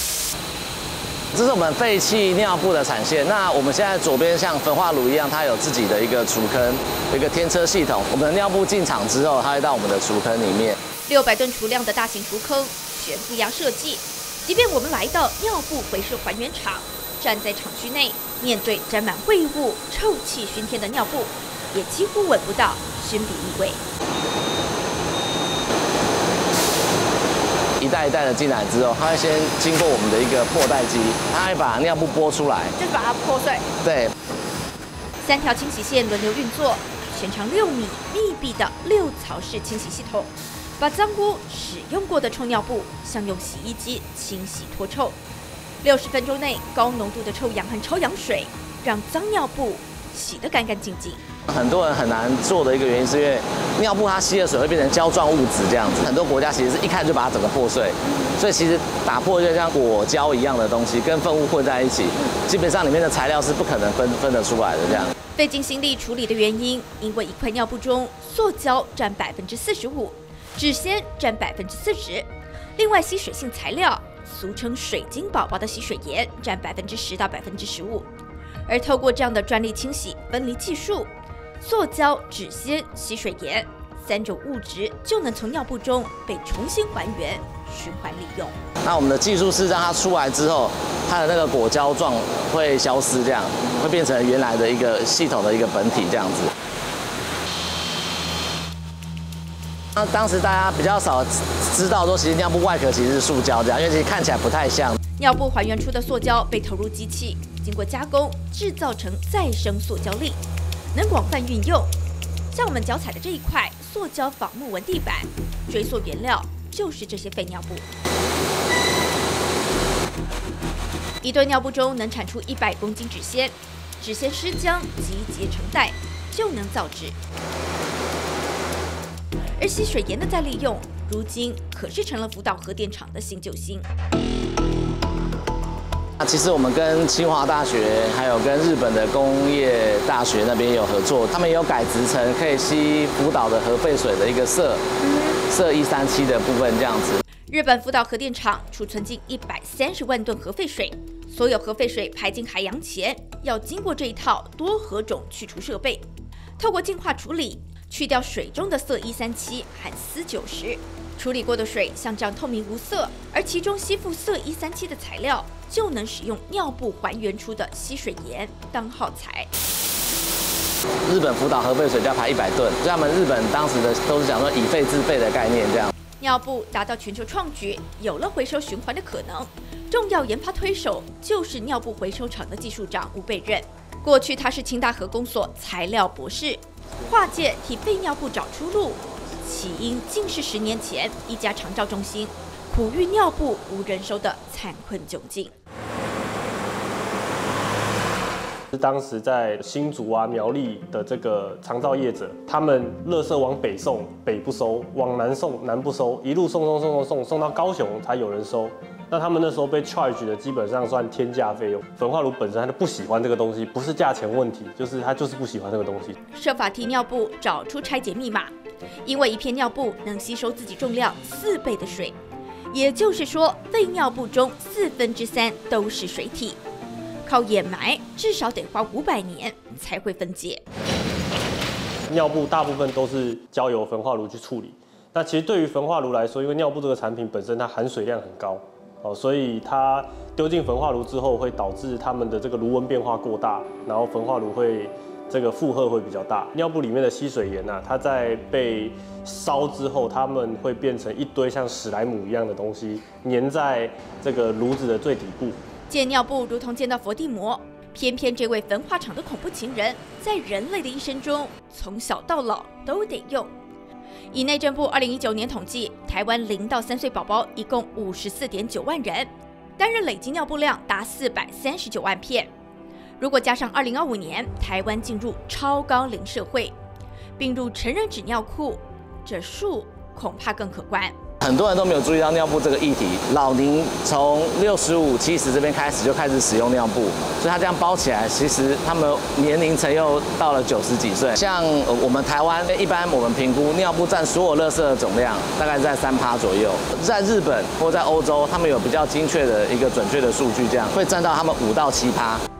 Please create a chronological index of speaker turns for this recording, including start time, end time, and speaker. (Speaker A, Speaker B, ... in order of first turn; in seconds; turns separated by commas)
Speaker A: 1.3-10.7, Speaker B: 11.1-23.8, Speaker A: 27.8-32.7, Speaker B: 32.8-33.7, Speaker A: 33.8-34.1, Speaker B: 35.2-45.2, Speaker B: 45.8-51.2, Speaker A: 51.5-65.1, Speaker B: 65.3-78.1, Speaker B: 78.7-88.5, Speaker A: 88.8-96.5, Speaker A: 100.0-105.0, Speaker B: 105.2-110.4, Speaker B: 110.9-111.9, Speaker B: 112.5-117.9, Speaker B: 121.2-127.2, Speaker B: 129.6-133.8, Speaker A: 136.2-144.8, Speaker B: 145.0-145.4, Speaker A: 145.5-147.2, Speaker B: 147.5-156.1, Speaker B: 156.6-169.5, Speaker A: 171.1-175.9, Speaker B: 176.2-195.5, Speaker C: 198.7-216.2, Speaker B: 216.3-218.5, Speaker B: 219.0-222.2, Speaker B: 222.7-226.6, Speaker B: 227.2-230.6, Speaker C: 232.1-255.6, Speaker B: 255.9-263.5, Speaker B: 264.3-272.5, Speaker B: 273.2-276.7, Speaker B: 277.4-281.1, Speaker A: 281.4-302.4